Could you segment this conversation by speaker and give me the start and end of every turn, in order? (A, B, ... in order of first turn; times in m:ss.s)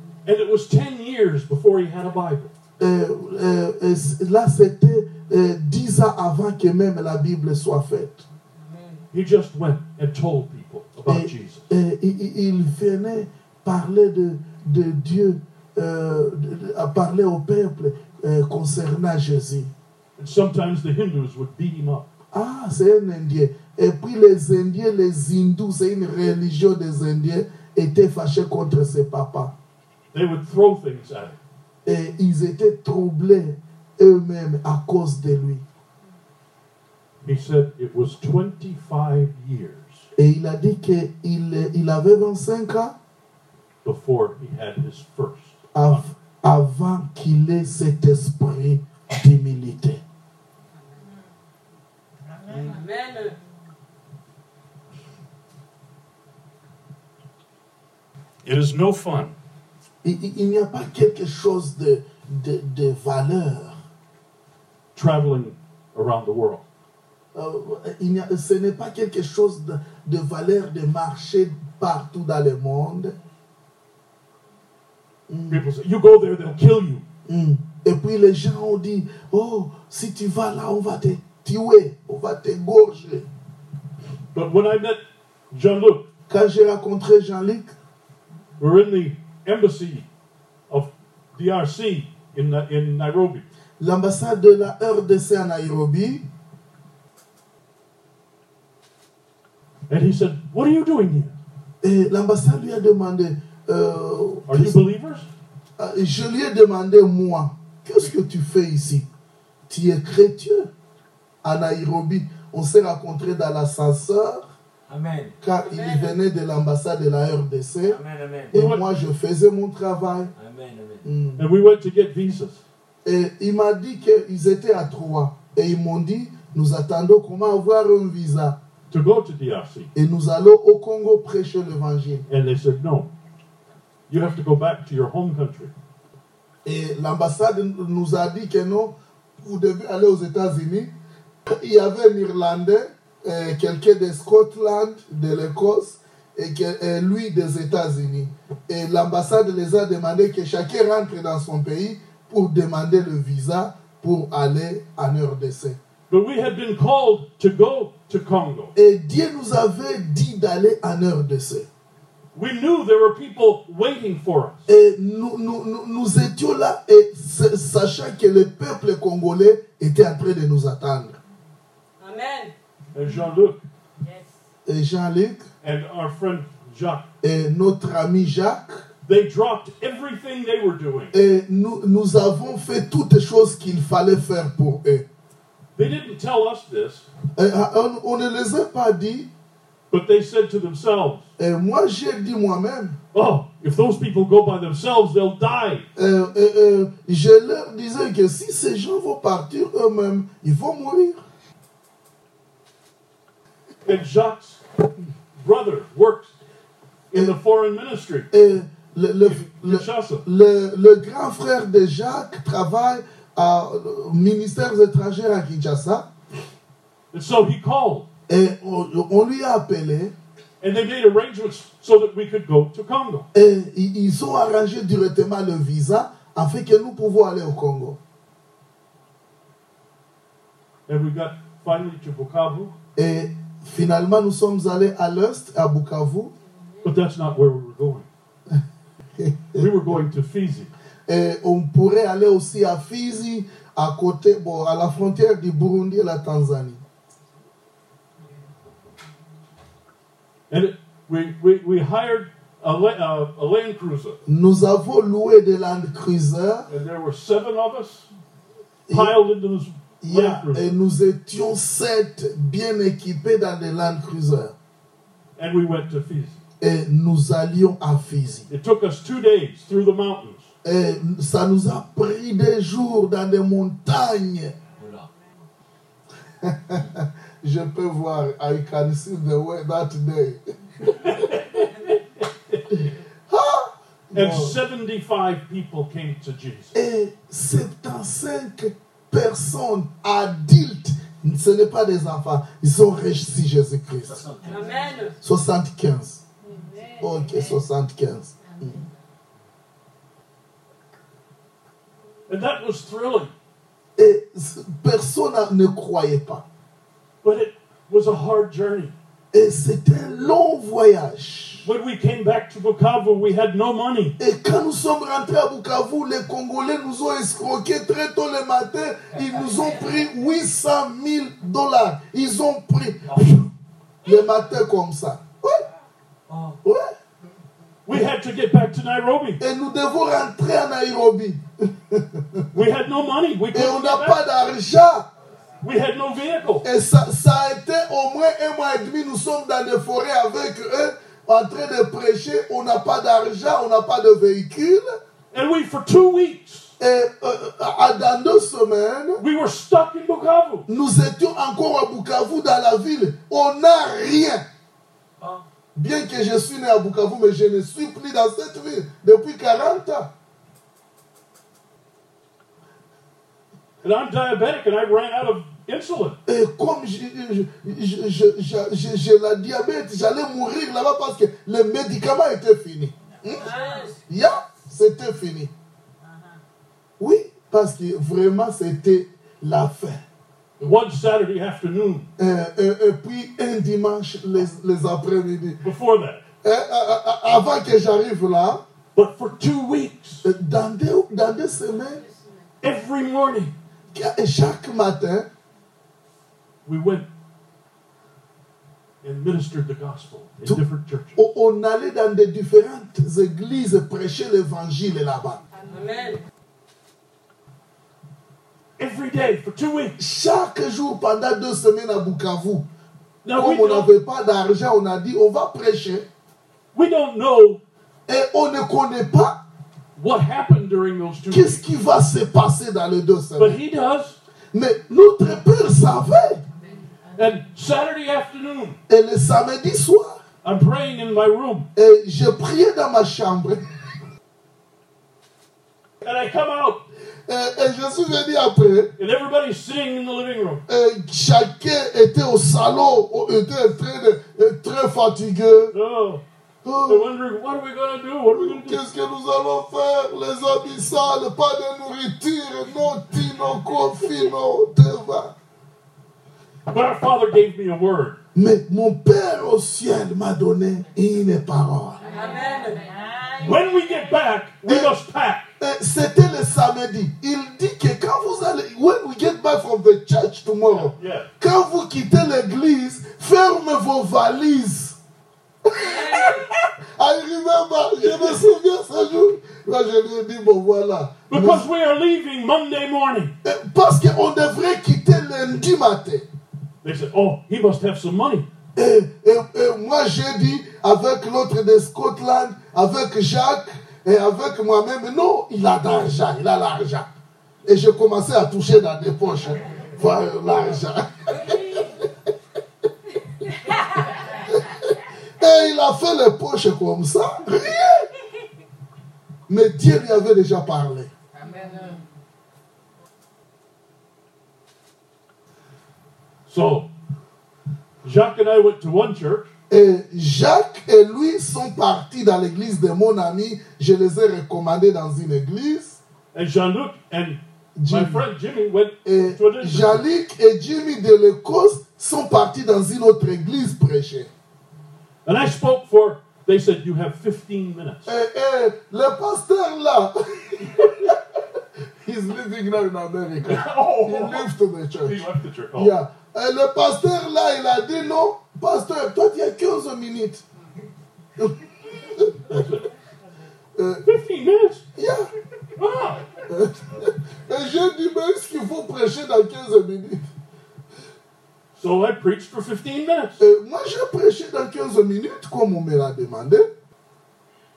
0:00.3-0:02.5 A
0:02.8-0:08.2 B
0:08.6-0:09.0 C
0:09.1-0:11.7 A
0:11.1-0:19.7 B
0:20.2-0:22.1 A
0:22.3-0:29.5 B
0:30.1-0:31.4 A
0:31.9-0:35.6 B
0:37.2-0:40.1 A
0:40.2-0:43.0 B
0:43.8-0:46.0 A
0:45.7-0:50.0 B
0:52.5-0:53.4 C
0:58.4-0:59.3 A
1:00.0-1:03.8 B
1:05.0-1:06.6 A
1:07.3-1:13.2 B
1:15.3-1:15.6 B
1:15.5-1:17.0 A
1:17.3-1:23.3 B
1:24.3-1:25.0 A
1:25.5-1:26.1 A
1:26.3-1:27.7 B
1:28.6-1:30.1 A
1:30.7-1:33.5 A
1:33.8-1:36.3 B
1:39.9-1:41.3 A
1:41.8-1:44.8 B
1:44.5-1:45.3 A
1:45.8-1:49.1 B
1:49.7-1:50.7 B
1:51.4-1:54.5 B
1:54.9-1:55.4 D
1:55.4-1:58.0 B
1:55.6-1:56.1 C
1:57.9-1:58.6 D
1:58.5-2:00.3 B
1:58.5-1:58.9 A
2:00.4-2:01.1 D
2:01.0-2:01.4 B
2:01.4-2:02.6 A
2:03.0-2:08.6 B
2:08.9-2:09.9 A
2:10.0-2:12.2 B
2:12.3-2:13.1 A
2:14.1-2:15.7 A
2:16.6-2:20.9 B
2:21.4-2:35.8 B
2:36.1-2:38.7 A
2:38.8-2:41.7 B
2:42.4-2:44.7 A
2:44.7-2:51.2 B
2:52.0-2:52.5 C
2:52.9-2:53.6 A
2:54.6-2:55.5 B
2:55.6-2:57.0 A
2:57.2-2:58.9 B
2:59.1-3:01.1 A
3:01.1-3:05.0 B
3:05.8-3:07.1 A
3:07.4-3:09.3 B
3:09.9-3:11.2 A
3:11.4-3:13.0 B
3:13.1-3:15.9 A
3:16.0-3:21.2 B
3:23.9-3:24.6 A
3:25.4-3:26.3 A
3:27.1-3:28.3 A
3:28.3-3:36.1 B
3:29.2-3:30.2 A
3:37.1-3:38.1 A
3:38.3-3:40.1 B
3:40.6-3:43.3 A
3:43.3-3:48.0 B
3:50.9-3:52.7 A
3:53.0-3:56.3 B
3:56.8-3:58.1 A
3:59.2-3:59.7 B
3:59.6-4:00.7 A
4:01.1-4:06.8 B
4:10.5-4:14.2 A
4:14.3-4:16.7 B
4:16.7-4:18.1 A
4:18.9-4:19.2 B
4:18.9-4:20.7 A
4:20.0-4:24.5 B
4:25.4-4:26.4 A
4:26.6-4:28.5 B
4:28.5-4:30.5 A
4:30.6-4:34.6 B
4:34.8-4:35.1 D
4:36.4-4:41.2 B
4:40.9-4:42.6 A
4:43.3-4:44.6 B
4:44.1-4:46.7 A
4:46.7-4:54.2 B
4:54.0-4:54.8 D
4:54.5-4:55.2 C
4:55.2-4:56.2 B
4:57.0-4:58.8 B
5:02.3-5:03.3 A
5:04.0-5:06.4 B
5:07.2-5:08.9 A
5:09.3-5:11.7 B
5:11.6-5:14.2 A
5:14.2-5:23.5 B
5:19.2-5:19.6 D
5:24.0-5:25.6 B
5:26.3-5:26.6 D
5:26.6-5:27.0 B
5:27.9-5:29.4 A
5:29.4-5:32.6 B
5:32.5-5:34.2 A
5:33.5-5:35.1 B
5:35.6-5:36.6 A
5:36.6-5:45.0 B
5:45.3-5:46.7 A
5:46.8-5:49.2 B
5:49.2-5:50.7 A
5:50.7-5:54.4 B
5:55.8-6:00.1 B
6:03.8-6:06.2 A
6:06.3-6:13.5 B
6:13.4-6:14.0 C
6:14.1-6:15.5 B
6:17.0-6:20.0 B
6:20.6-6:22.1 A
6:22.2-6:25.6 B
6:25.6-6:26.2 A
6:26.4-6:28.6 B
6:29.0-6:30.3 A
6:30.2-6:32.1 B
6:32.6-6:33.5 A
6:33.9-6:35.3 B
6:36.7-6:37.1 A
6:39.0-6:41.2 A
6:41.2-6:45.4 B
6:45.6-6:46.2 C
6:48.8-6:50.0 A
6:50.0-6:52.7 B
6:53.2-6:53.9 A
6:53.4-6:56.1 B
6:56.7-6:57.6 A
6:58.1-6:59.4 B
7:00.0-7:01.6 A
7:01.3-7:03.6 B
7:03.4-7:04.2 A
7:04.5-7:06.4 B
7:07.2-7:08.8 A
7:08.9-7:10.2 B
7:10.4-7:11.7 A
7:11.8-7:13.7 B
7:16.0-7:16.8 A
7:17.3-7:18.9 B
7:19.0-7:20.6 A
7:20.7-7:25.7 B
7:25.7-7:26.2 A
7:26.6-7:27.1 B
7:26.9-7:28.8 A
7:28.3-7:35.3 B
7:36.7-7:38.2 A
7:38.4-7:42.1 B
7:42.1-7:42.9 C
7:43.4-7:45.5 A
7:44.7-7:44.9 B
7:45.6-7:55.0 B
7:50.7-7:51.3 A
7:55.6-8:01.7 B
7:55.7-7:56.5 C
7:58.0-7:58.4 A
8:01.3-8:03.3 A
8:03.4-8:06.3 B
8:06.8-8:08.5 A
8:08.8-8:17.1 B
8:17.6-8:22.1 B
8:24.2-8:28.1 B
8:29.5-8:31.1 B
8:36.5-8:36.9 A
8:38.0-8:39.5 A
8:39.7-8:46.0 B
8:46.3-8:50.0 A
8:47.8-8:48.2 B
8:49.0-8:54.3 B
8:55.2-8:58.1 A
8:58.1-9:01.4 B
9:02.0-9:05.2 B
9:03.4-9:04.5 A
9:05.0-9:06.0 A
9:05.8-9:10.4 B
9:11.4-9:12.6 B
9:12.5-9:12.9 A
9:13.8-9:14.0 B
9:14.0-9:14.8 A
9:15.0-9:15.3 B
9:15.8-9:16.3 A
9:16.5-9:20.3 B
9:21.8-9:23.4 A
9:23.4-9:26.7 B